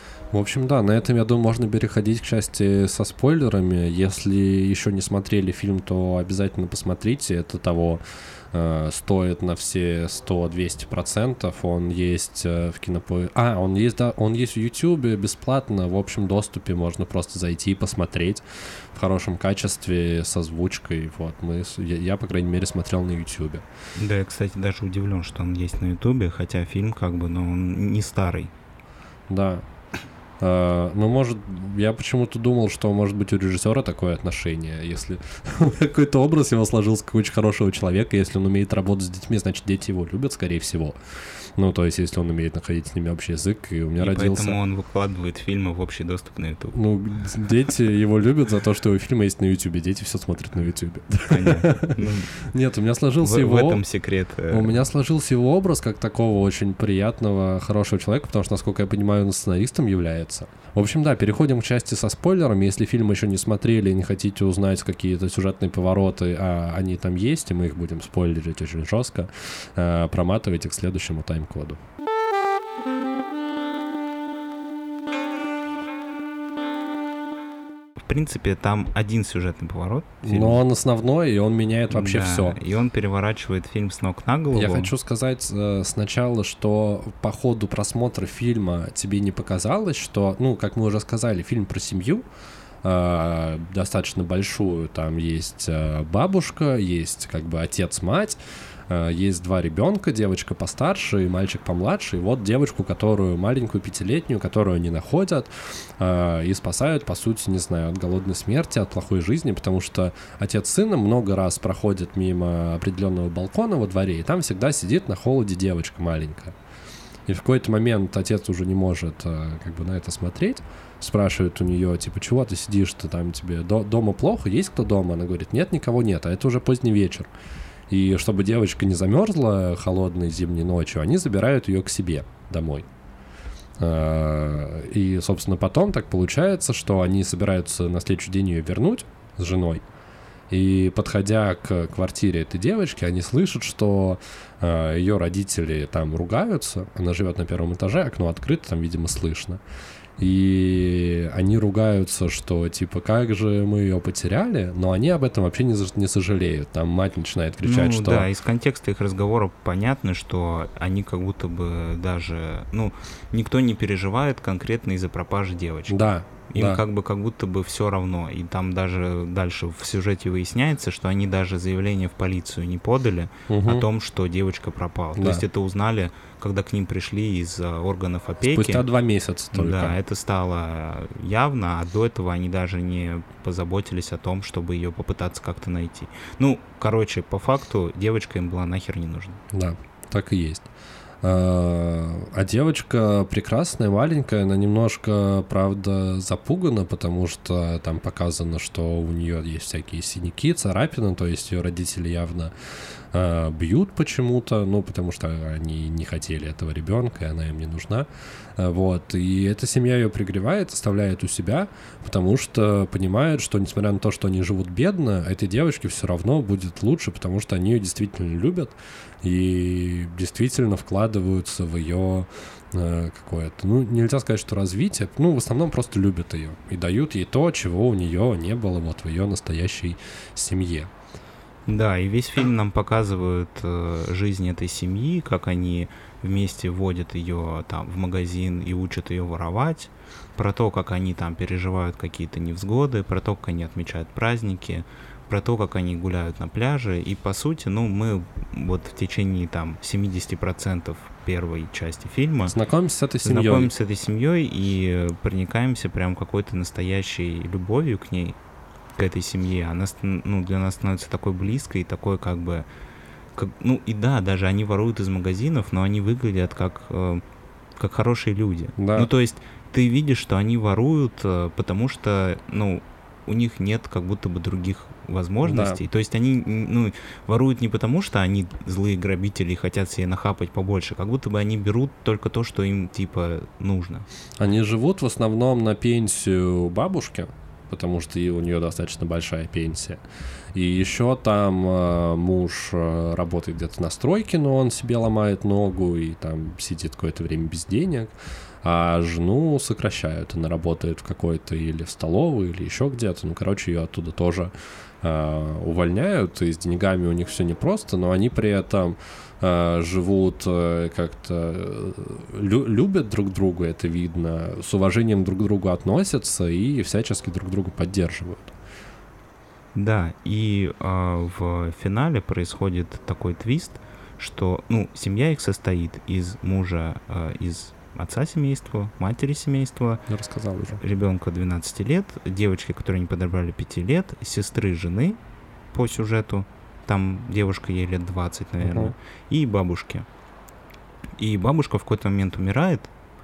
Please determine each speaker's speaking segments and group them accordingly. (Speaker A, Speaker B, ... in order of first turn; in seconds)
Speaker A: 0.3-8.0, 8.5-23.6, 29.3-29.6, 30.4-41.0, 41.5-44.6, 46.7-53.8, 54.5-71.8, 80.2-82.6, 84.5-92.2, 92.8-116.5, 117.3-127.3, 127.9-132.9, 133.8-139.8, 140.5-149.6, 150.2-158.3, 165.9-166.8, 173.5-173.8, 175.2-175.4, 178.4-179.9, 189.5-190.7, 191.2-202.5, 203.1-230.9, 252.5-253.7, 268.8-269.1, 275.4-275.8, 284.4-290.0, 290.5-318.5, 330.1-330.8, 338.6-338.9
Speaker B: 24.0-28.5, 44.0-46.8, 51.3-52.3, 53.2-54.8, 78.0-80.6, 81.9-84.9, 157.6-178.8, 179.5-189.4, 231.7-252.6, 253.2-258.4, 259.0-262.6, 263.4-267.2, 267.8-284.1, 319.7-330.0, 330.8-335.2, 335.7-340.1, 341.2-342.9